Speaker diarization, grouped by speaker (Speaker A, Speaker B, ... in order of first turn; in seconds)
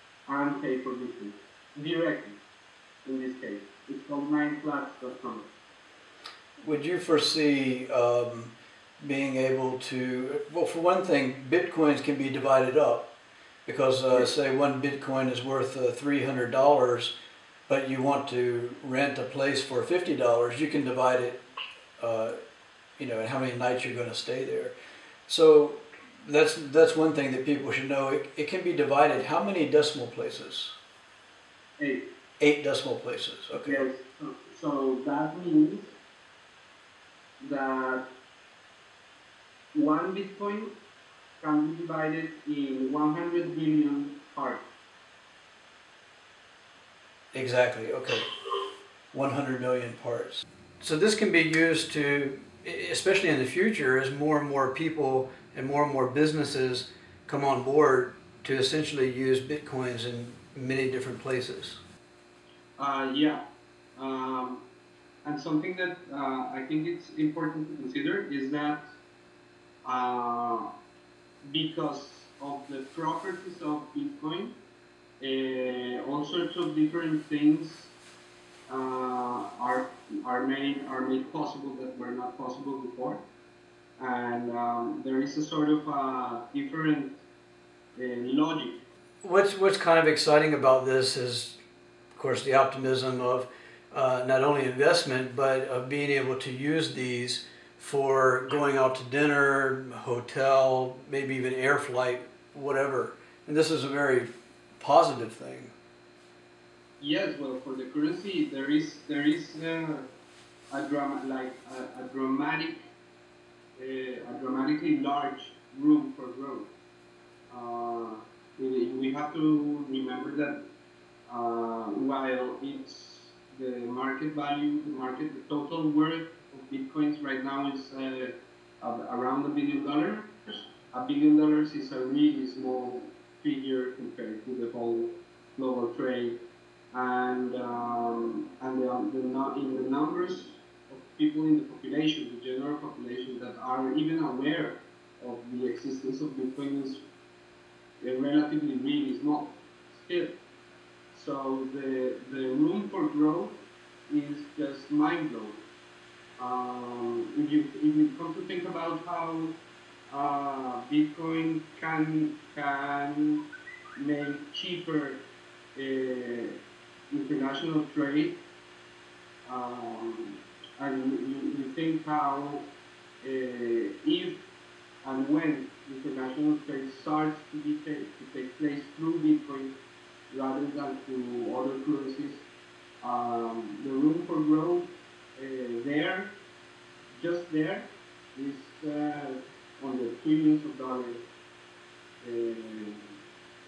Speaker A: 0.3-2.4, 3.0-5.5, 31.8-32.0, 33.7-36.0, 37.4-38.1, 39.7-40.7, 41.4-44.7, 62.8-63.4, 64.0-64.6, 65.2-68.8, 69.8-70.7, 71.4-74.5, 75.2-77.9, 78.7-83.2, 84.0-87.2, 88.0-88.8, 107.0-110.0, 110.7-112.8, 113.8-116.7, 117.5-120.6, 121.3-136.4, 136.9-147.0, 148.0-150.3, 151.1-153.6, 154.1-155.6, 156.4-159.6, 160.1-163.4, 164.0-165.2, 165.8-166.6, 167.1-168.4, 169.5-172.7, 173.2-174.5, 175.0-179.7, 180.3-182.5, 183.0-186.3, 187.2-191.2, 192.2-193.0
Speaker B: 6.6-13.1, 13.7-17.1, 17.7-21.4, 22.0-22.4, 23.0-24.8, 25.3-30.7, 32.4-33.9, 47.3-48.3, 49.1-61.8, 89.2-91.6, 92.2-105.7